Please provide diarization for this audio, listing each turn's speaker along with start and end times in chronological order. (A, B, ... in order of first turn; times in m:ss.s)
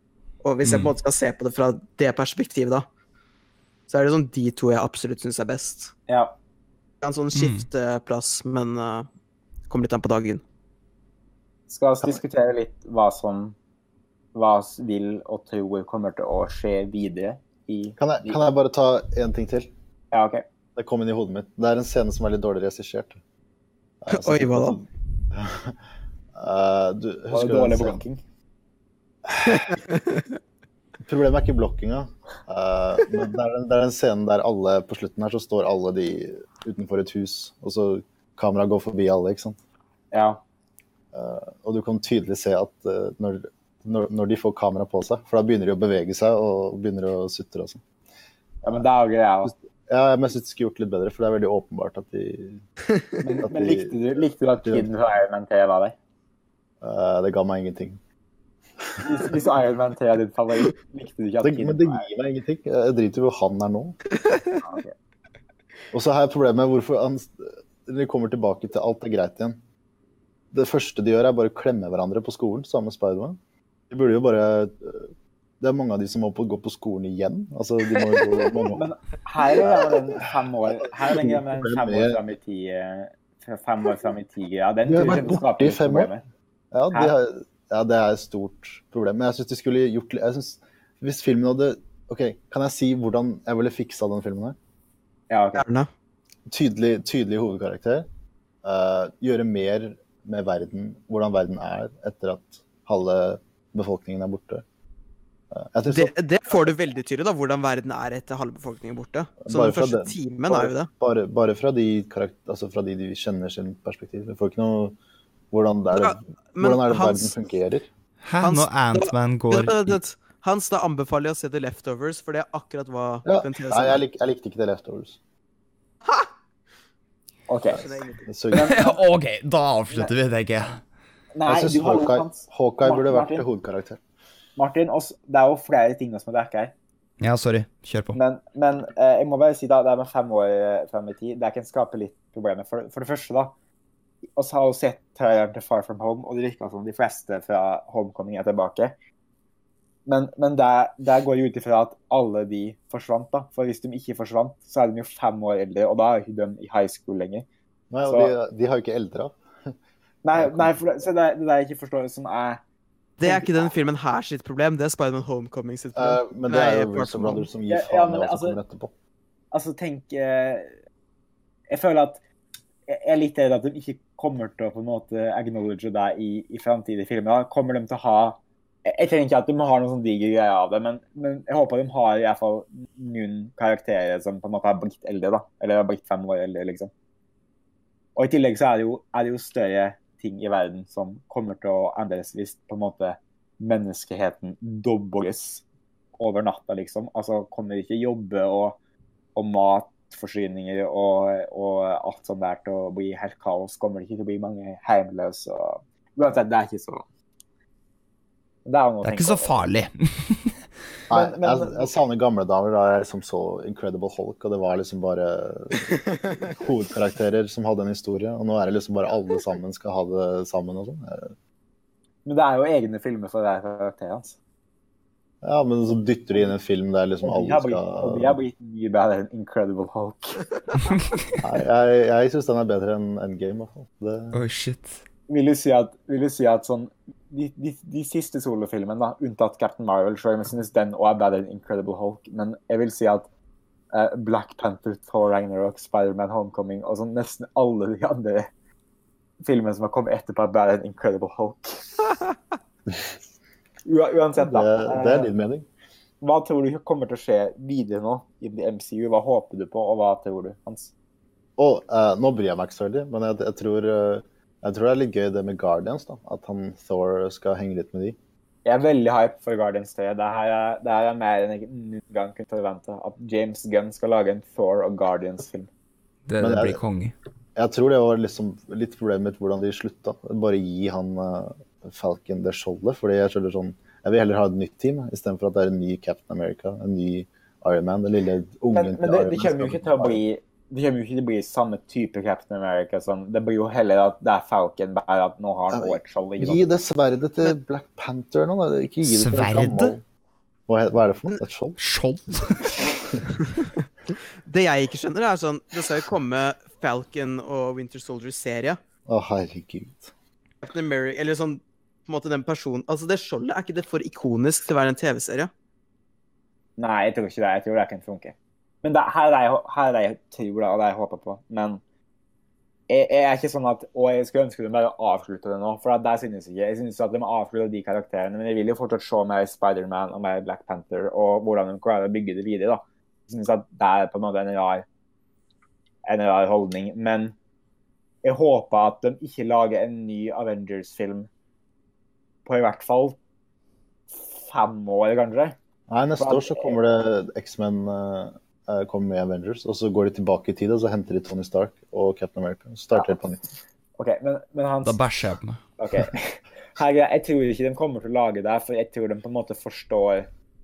0:00.4-0:02.8 A
0:00.6-0:00.9 B
0:03.9-0:05.9 A
0:06.1-0:06.4 C
0:07.0-0:09.1 A
0:07.3-0:07.6 B
0:09.7-0:10.4 A
0:11.7-0:13.6 C
0:14.3-0:18.4 C
0:18.0-0:19.7 D
0:20.1-0:20.4 C
0:20.8-0:23.2 D
0:24.0-0:25.8 D
0:24.1-0:24.8 A
0:26.4-0:28.0 D
0:27.3-0:28.2 C
0:29.3-0:29.6 D
0:29.4-0:30.4 A
0:31.1-0:39.6 D
0:40.1-0:40.4 C
0:41.1-0:47.8 D
0:48.6-0:49.5 C
0:49.4-0:52.6 D
0:53.2-0:56.0 C
0:53.4-0:54.0 D
0:54.6-0:54.9 D
0:56.8-0:58.0 D
0:58.8-0:59.3 D
0:59.0-1:02.0 C
1:01.4-1:04.0 D
1:04.2-1:04.6 A
1:04.6-1:04.9 C
1:05.9-1:09.6 D
1:10.5-1:13.4 D
1:13.9-1:18.9 D
1:18.7-1:26.2 C
1:19.6-1:22.2 D
1:24.9-1:26.1 D
1:26.7-1:34.6 D
1:35.3-1:35.6 C
1:35.6-1:35.9 A
1:36.5-1:38.1 D
1:38.6-1:44.6 D
1:45.5-1:46.1 D
1:45.9-1:50.9 A
1:49.5-1:55.0 D
1:55.5-1:57.9 D
1:55.9-1:57.3 A
1:58.2-2:00.0 B
1:58.4-2:04.0 A
2:03.3-2:05.2 D
2:07.5-2:08.9 C
2:07.8-2:08.2 A
2:08.3-2:08.7 D
2:08.5-2:10.8 B
2:11.3-2:13.4 C
2:11.5-2:14.0 D
2:14.6-2:16.7 C
2:17.2-2:18.2 B
2:18.1-2:23.5 C
2:24.4-2:28.9 C
2:30.1-2:37.5 C
2:37.9-2:39.8 D
2:38.1-2:38.3 C
2:40.2-2:42.6 C
2:40.4-2:40.7 D
2:43.2-2:47.5 A
2:43.2-2:43.7 C
2:46.0-2:48.9 D
2:47.7-2:48.6 C
2:49.5-2:50.7 C
2:51.7-2:52.2 C
2:52.9-3:06.9 C
3:08.2-3:15.6 C
3:16.2-3:18.8 C
3:19.4-3:27.0 C
3:28.6-3:29.6 C
3:29.0-3:30.6 B
3:31.1-3:31.9 C
3:31.1-3:41.3 D
3:42.2-3:44.4 C
3:45.4-3:48.4 D
3:47.2-3:50.5 C
3:51.4-3:54.4 D
3:54.3-3:55.0 B
3:55.3-4:03.3 C
4:03.9-4:08.5 C
4:09.4-4:12.2 C
4:13.8-4:15.3 C
4:14.4-4:15.7 D
4:16.2-4:20.9 C
4:21.6-4:28.2 D
4:28.6-4:35.7 C
4:36.3-4:37.1 B
4:36.4-4:36.8 D
4:37.6-4:50.2 D
4:48.7-4:56.7 C
4:55.7-5:00.0 D
4:59.0-5:00.0 B
5:00.7-5:01.8 D
5:01.8-5:02.8 B
5:03.5-5:08.8 A
5:09.1-5:10.1 D
5:10.6-5:15.5 A
5:16.8-5:21.8 C
5:22.9-5:34.8 C
5:36.0-5:37.4 C
5:38.2-5:41.3 C
5:42.5-5:43.2 C
5:44.1-5:45.6 C
5:45.9-5:53.4 D
5:46.2-5:46.8 C
5:54.0-5:55.0 C
5:54.8-5:55.6 B
5:55.8-6:00.3 C